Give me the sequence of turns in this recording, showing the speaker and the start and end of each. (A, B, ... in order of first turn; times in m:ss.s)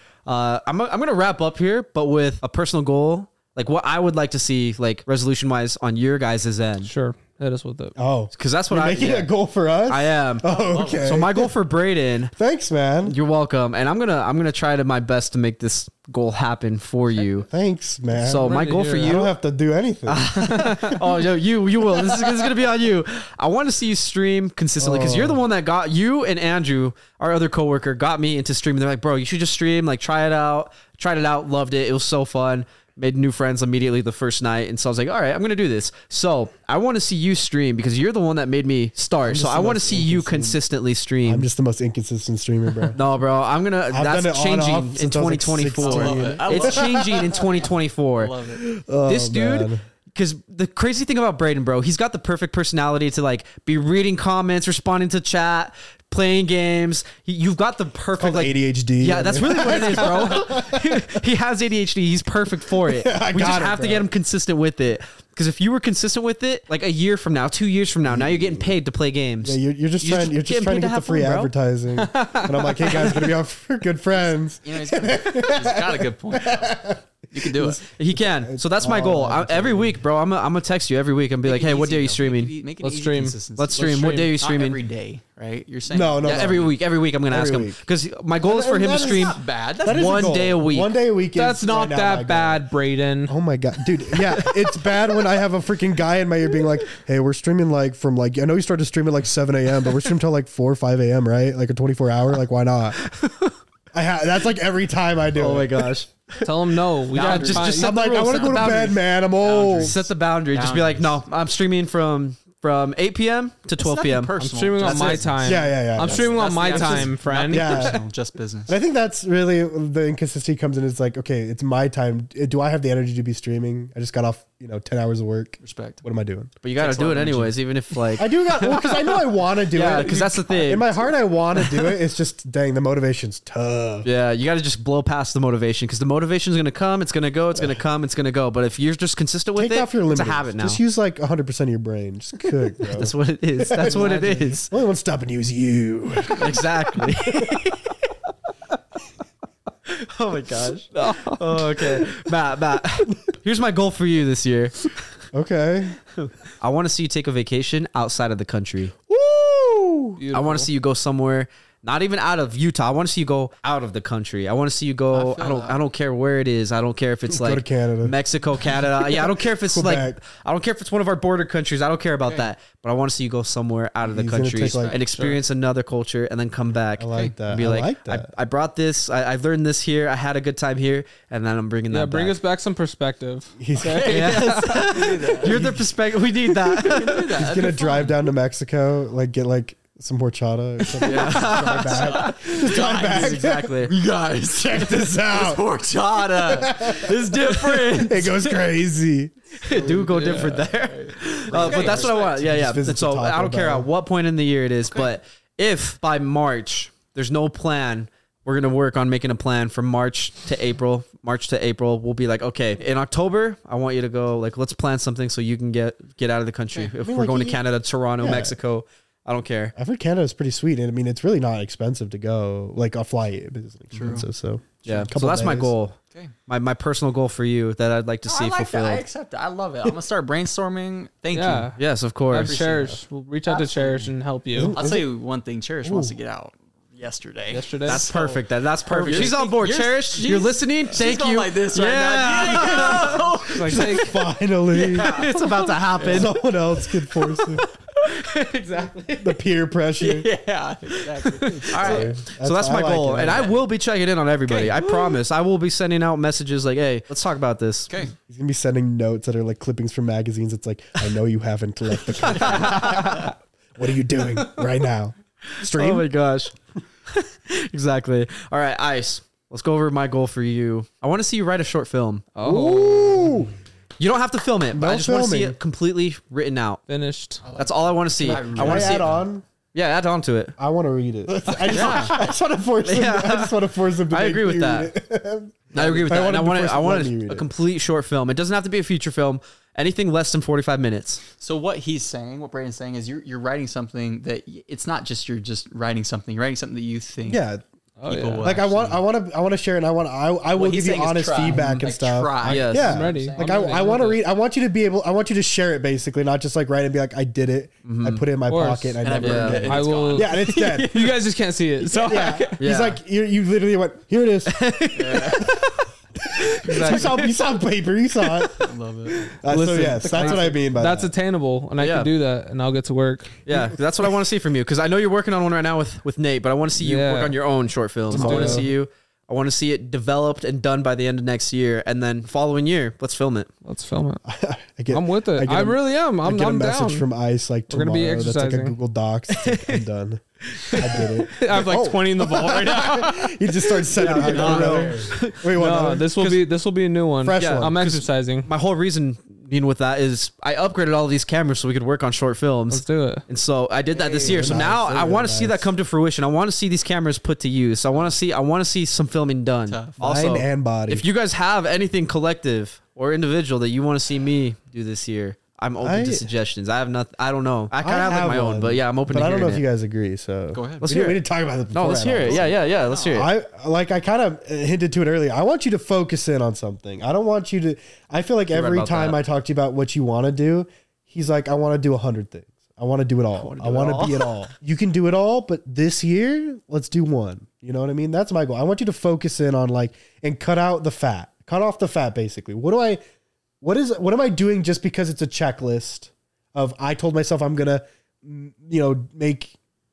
0:00.2-0:06.9 A
0:06.8-0:07.9 B
0:08.0-0:11.5 C
0:08.3-0:09.3 A
0:09.9-0:12.3 A
0:10.4-0:11.2 D
0:12.3-0:13.1 C
0:13.0-0:17.5 A
0:17.4-0:20.7 C
0:18.2-0:19.3 A
0:18.4-0:19.2 B
0:20.1-0:41.4 A
0:20.4-0:20.9 B
0:22.0-0:22.4 C
0:24.8-0:25.4 C
0:39.2-0:40.6 C
0:41.2-0:43.0 C
0:42.9-0:48.3 A
0:43.9-0:47.4 C
0:45.8-0:48.6 D
0:48.6-0:49.8 C
0:49.0-1:11.5 A
0:58.2-1:01.2 C
1:02.8-1:04.1 C
1:08.1-1:08.7 C
1:09.4-1:20.0 C
1:11.9-1:13.3 B
1:14.2-1:17.8 D
1:18.0-1:22.5 A
1:21.4-1:26.7 D
1:22.8-1:24.3 B
1:23.6-1:24.8 A
1:25.9-1:26.7 C
1:26.2-1:30.9 A
1:27.3-1:27.8 C
1:28.4-1:32.6 C
1:29.0-1:30.4 D
1:31.4-1:33.3 B
1:33.3-1:43.0 C
1:43.0-1:43.6 A
1:43.9-1:45.9 C
1:45.3-1:46.5 A
1:46.4-1:48.7 B
1:47.0-1:48.9 A
1:47.2-1:51.2 D
1:47.2-1:49.9 C
1:49.6-1:54.3 A
1:53.8-1:58.8 D
1:54.4-1:58.0 B
1:55.4-1:58.0 C
1:58.7-2:06.5 C
2:05.6-2:06.0 D
2:06.6-2:09.0 A
2:06.8-2:07.5 D
2:08.2-2:14.1 C
2:09.7-2:11.0 A
2:10.1-2:10.6 B
2:14.0-2:20.8 A
2:19.6-2:26.6 C
2:22.9-2:24.7 A
2:23.8-2:24.6 B
2:26.3-2:27.9 A
2:27.2-2:27.6 C
2:29.9-2:35.0 A
2:31.0-2:32.1 B
2:35.3-2:36.0 C
2:36.2-2:38.9 A
2:39.1-2:40.2 C
2:40.2-2:40.7 B
2:40.3-3:02.4 A
2:45.1-2:45.8 D
2:47.3-2:48.2 C
2:49.0-2:50.2 C
2:54.0-2:55.0 C
2:54.6-2:55.0 D
2:55.1-2:55.4 B
2:57.0-2:58.3 C
3:01.9-3:04.6 B
3:03.6-3:05.9 C
3:03.8-3:05.7 D
3:04.1-3:07.4 A
3:06.6-3:08.2 D
3:07.3-3:13.8 C
3:11.0-3:13.9 A
3:11.0-3:17.1 D
3:14.5-3:15.6 C
3:16.4-3:19.3 C
3:16.6-3:18.6 A
3:19.6-3:39.7 A
3:19.7-3:22.4 D
3:20.0-3:20.7 B
3:21.5-3:23.9 C
3:37.0-3:37.6 C
3:38.2-3:38.6 C
3:39.8-3:45.7 C
3:43.9-3:44.2 D
3:44.8-3:49.0 A
3:48.2-3:51.7 D
3:51.3-3:54.8 B
3:51.8-3:52.6 A
3:52.4-3:54.1 D
3:54.5-3:55.1 C
3:54.7-4:04.1 D
3:55.8-3:56.1 C
3:57.5-3:58.2 B
3:57.8-4:03.3 A
3:58.9-3:59.3 B
4:03.5-4:04.2 B
4:03.6-4:05.2 C
4:04.7-4:06.4 A
4:04.8-4:06.3 D
4:06.0-4:07.6 C
4:07.2-4:09.4 D
4:09.2-4:10.3 C
4:10.0-4:12.1 D
4:11.4-4:17.9 A
4:11.7-4:13.5 C
4:13.2-4:13.6 D
4:14.4-4:14.8 D
4:18.3-4:26.1 C
4:22.3-4:23.3 A
4:25.6-4:26.5 A
4:27.1-4:32.2 A
4:32.3-4:33.4 B
4:32.4-4:33.5 C
4:34.0-4:36.8 A
4:34.7-4:35.6 C
4:36.9-4:37.4 B
4:37.4-4:39.2 D
4:37.5-4:39.1 A
4:38.5-4:39.4 C
4:39.7-4:40.5 A
4:40.6-4:47.5 C
4:41.5-4:42.1 B
4:41.7-4:42.3 D
4:42.8-4:43.5 A
4:44.1-4:44.9 A
4:45.7-4:51.2 A
4:51.4-4:57.4 D
4:57.3-4:57.6 C
4:58.0-4:58.6 B
4:58.0-4:59.0 D
4:58.4-5:10.9 C
5:00.5-5:04.0 D
5:01.5-5:01.8 A
5:02.4-5:04.2 B
5:02.4-5:03.0 A
5:07.8-5:08.2 A
5:08.5-5:09.0 B
5:09.0-5:11.2 D
5:09.2-5:09.7 A
5:09.6-5:12.5 B
5:11.8-5:12.5 D
5:12.0-5:14.6 C
5:12.6-5:13.0 A
5:14.5-5:15.8 A
5:14.9-5:15.6 D
5:16.4-5:17.2 A
5:16.7-5:18.7 C
5:16.8-5:17.3 D
5:18.6-5:19.3 D
5:19.4-5:21.1 C
5:19.4-5:23.4 B
5:20.0-5:20.5 D
5:21.8-5:22.1 A
5:23.4-5:33.5 A
5:23.5-5:24.1 C
5:26.8-5:27.4 B
5:28.1-5:28.7 B
5:28.1-5:28.7 C
5:33.6-5:34.2 B
5:34.2-5:46.1 C
5:34.9-5:37.0 B
5:37.7-5:38.8 B
5:39.4-5:39.8 A
5:40.5-5:41.1 A
5:40.8-5:44.6 B
5:43.9-5:45.2 D
5:44.0-5:45.4 A
5:45.5-5:48.5 B
5:46.2-5:46.4 A
5:47.2-5:47.8 C
5:47.4-6:09.6 A
5:52.7-5:53.2 B
5:53.9-5:54.7 D
5:54.2-5:55.7 C
5:59.7-6:00.0 D
6:00.0-6:01.0 C
6:05.8-6:06.3 C
6:07.8-6:33.0 C
6:10.5-6:10.9 D
6:10.8-6:11.2 A
6:11.7-6:13.3 A
6:12.3-6:13.2 D
6:18.5-6:19.2 A
6:23.3-6:24.3 A
6:33.6-6:39.5 C